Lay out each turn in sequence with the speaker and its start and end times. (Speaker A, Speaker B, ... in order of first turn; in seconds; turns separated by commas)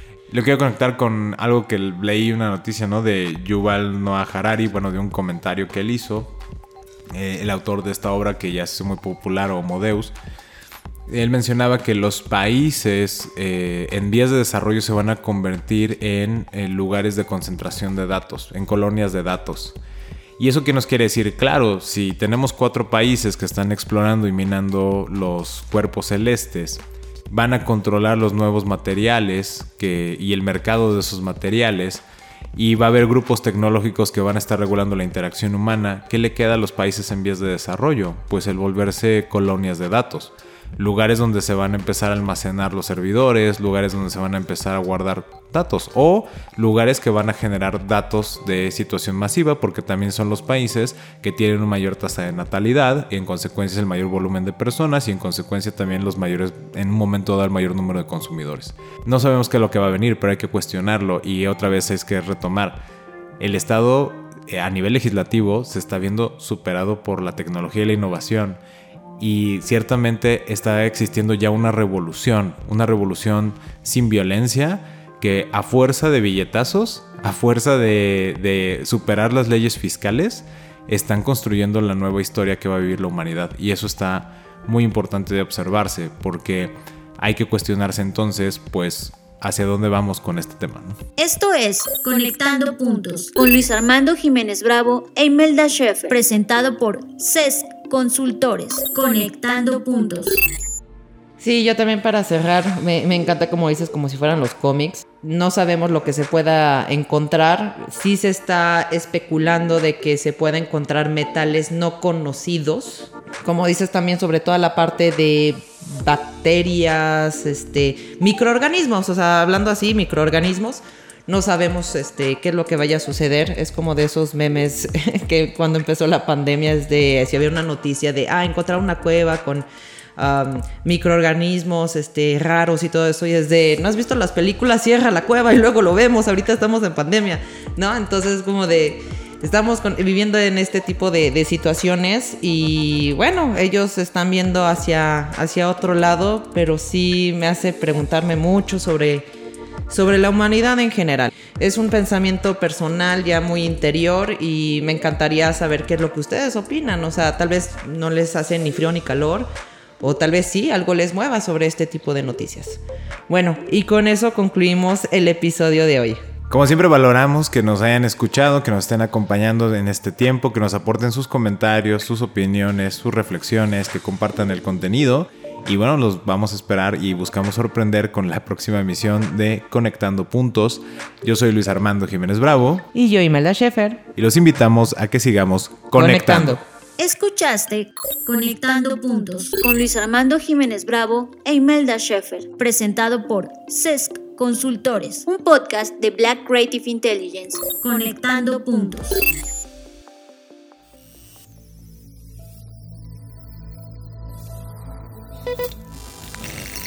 Speaker A: 0.3-6.3, Speaker A: 7.1-10.1, Speaker A: 11.1-19.8, Speaker A: 20.4-32.0, Speaker A: 32.5-62.8, Speaker A: 63.4-68.6, Speaker A: 69.2-91.0, Speaker B: 91.2-100.4, Speaker C: 101.4-129.6, Speaker C: 130.2-149.2, Speaker C: 149.9-159.5, Speaker C: 160.0-166.2, Speaker A: 166.5-182.9, Speaker C: 182.9-184.0, Speaker A: 184.2-186.6, Speaker C: 185.9-186.6, Speaker B: 187.0-199.2